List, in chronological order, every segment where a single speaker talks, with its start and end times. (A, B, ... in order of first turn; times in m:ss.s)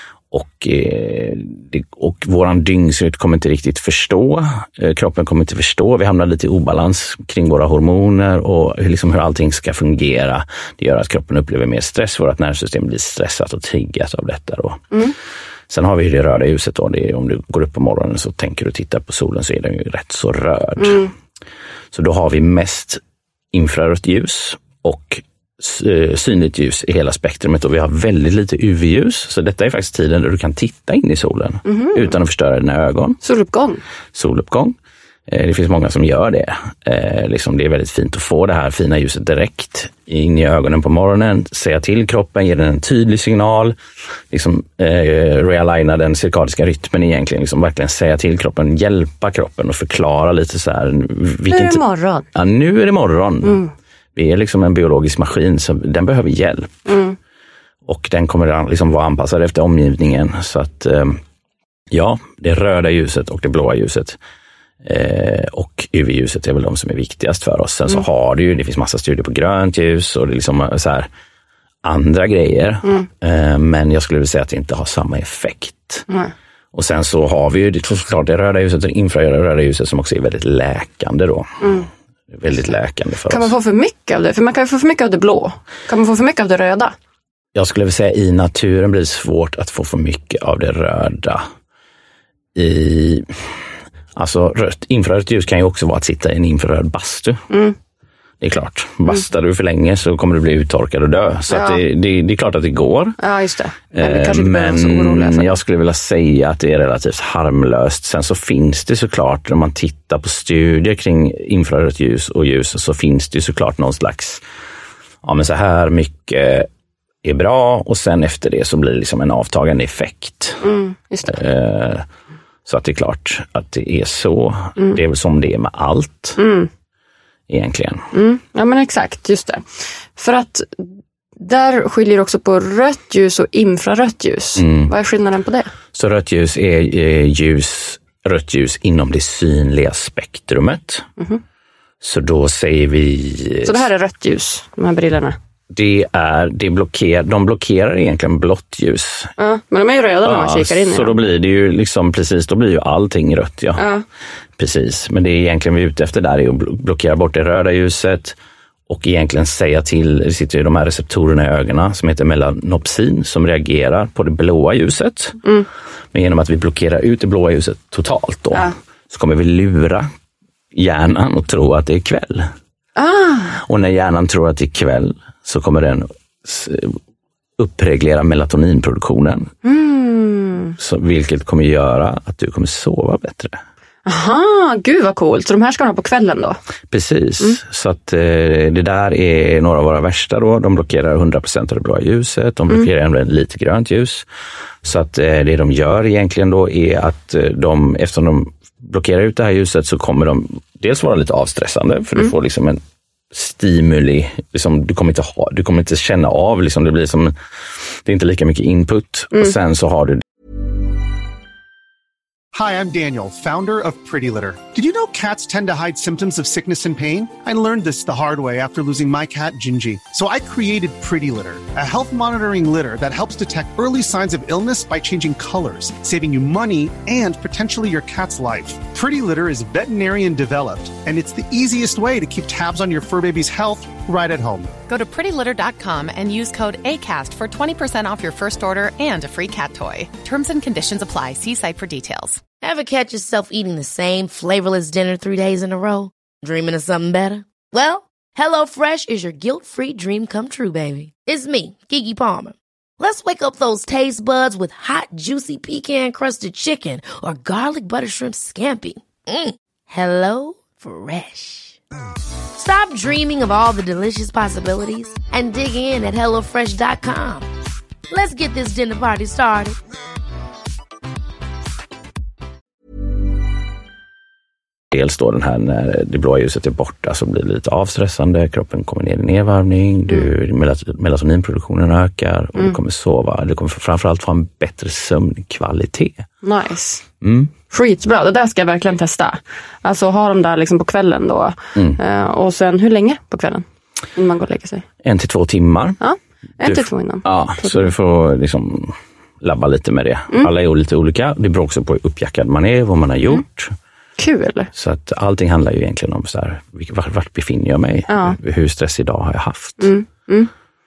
0:00.3-0:14.8 A
0:15.7-0:21.0 A
0:20.8-0:21.1 B
0:21.9-0:23.0 A
0:23.5-0:33.2 A
0:31.6-0:32.1 B
0:33.2-0:33.8 B
0:34.1-0:34.8 A
0:35.3-0:43.8 A
0:44.3-0:51.8 A
0:51.5-0:52.2 B
0:52.3-0:53.6 A
0:53.4-0:53.7 B
0:54.1-0:56.7 A
0:56.9-0:57.2 B
0:57.8-1:01.2 A
1:01.9-1:04.2 A
1:04.8-1:11.1 A
1:11.8-1:16.0 A
1:16.1-1:16.3 B
1:16.7-1:23.5 A
1:21.6-1:21.9 B
1:23.3-1:26.9 B
1:27.5-1:31.4 A
1:32.5-1:33.6 A
1:34.1-1:37.4 A
1:37.5-1:37.8 B
1:38.4-1:43.2 A
1:41.5-1:41.8 B
1:43.2-1:45.6 B
1:43.9-1:54.4 A
1:55.2-1:56.7 A
1:57.2-2:00.6 A
2:00.6-2:01.4 B
2:01.3-2:02.0 A
2:02.6-2:06.4 A
2:06.4-2:06.7 B
2:07.5-2:08.0 A
2:08.1-2:09.6 B
2:10.1-2:15.7 B
2:14.6-2:14.9 A
2:15.9-2:21.1 A
2:22.0-2:23.9 A
2:23.6-2:25.4 B
2:25.7-2:29.3 A
2:29.4-2:31.2 B
2:30.2-2:33.8 A
2:33.8-2:34.0 B
2:34.6-2:38.4 A
2:38.9-2:45.4 A
2:46.1-2:50.1 A
2:50.7-2:52.5 A
2:53.0-2:53.6 B
2:53.6-2:57.0 A
2:57.6-2:59.5 A
2:59.6-3:00.8 B
3:00.8-3:03.6 A
3:04.0-3:06.6 B
3:06.9-3:14.3 A
3:14.8-3:30.2 A
3:32.5-3:54.7 C
3:54.9-4:02.4 D
4:02.6-4:21.8 E
4:22.6-4:27.5 E
4:28.1-4:29.8 E
4:34.9-4:46.3 A
4:46.4-4:47.0 B
4:47.2-4:47.5 A
4:47.7-4:53.6 B
4:54.2-4:54.8 B
4:55.0-4:56.0 A
4:56.0-4:57.9 B
4:56.6-5:03.7 A
5:04.2-5:04.7 B
5:04.7-5:09.9 A
5:08.1-5:08.4 B
5:09.8-5:10.5 B